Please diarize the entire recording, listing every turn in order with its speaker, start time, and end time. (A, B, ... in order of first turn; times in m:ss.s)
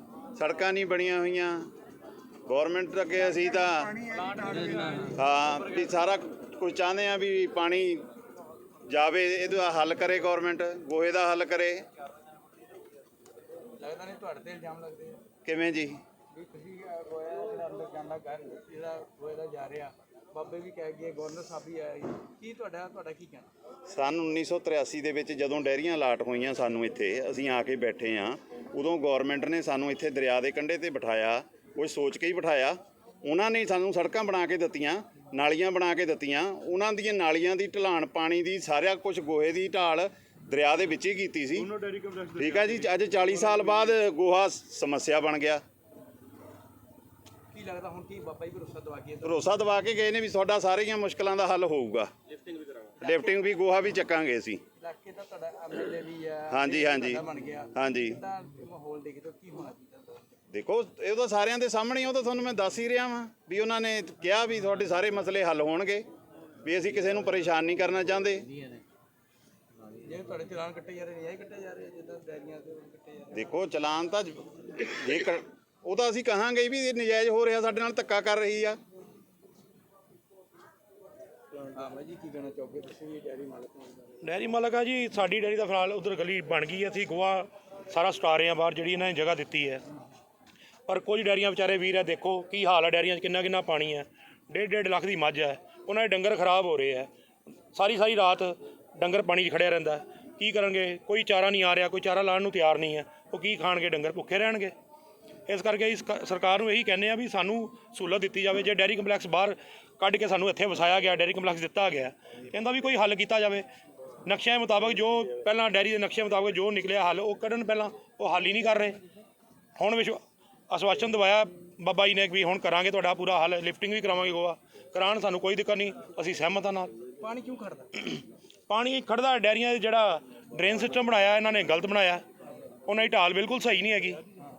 0:00.4-0:01.6 A
0:02.4-0:04.1 A
0:05.1-0:08.0 A
0:08.9-0:11.8 A
0:13.8-0:15.2 B
0:15.4-0:16.0 A
0:16.3-0:23.5 B
0:23.9-0:41.7 A
0:41.7-0:42.2 C
0:42.3-0:45.6 A
0:47.5-0:49.3 B
0:49.2-0:52.1 A
0:53.0-0:54.6 A
0:53.0-0:53.4 B
0:54.8-1:00.2 B
0:56.5-0:57.2 A
0:57.7-0:58.2 A
1:00.5-1:06.0 A
1:06.6-1:08.5 A
1:10.0-1:13.5 B
1:13.3-1:18.8 A
1:21.5-1:24.1 B
1:24.2-1:29.8 C
1:30.9-1:37.1 C
1:37.7-1:44.7 C
1:45.5-1:53.6 C
1:54.2-1:59.0 C
1:59.8-2:06.9 C
2:07.2-2:07.9 B
2:08.7-2:12.2 C
2:12.8-2:14.2 C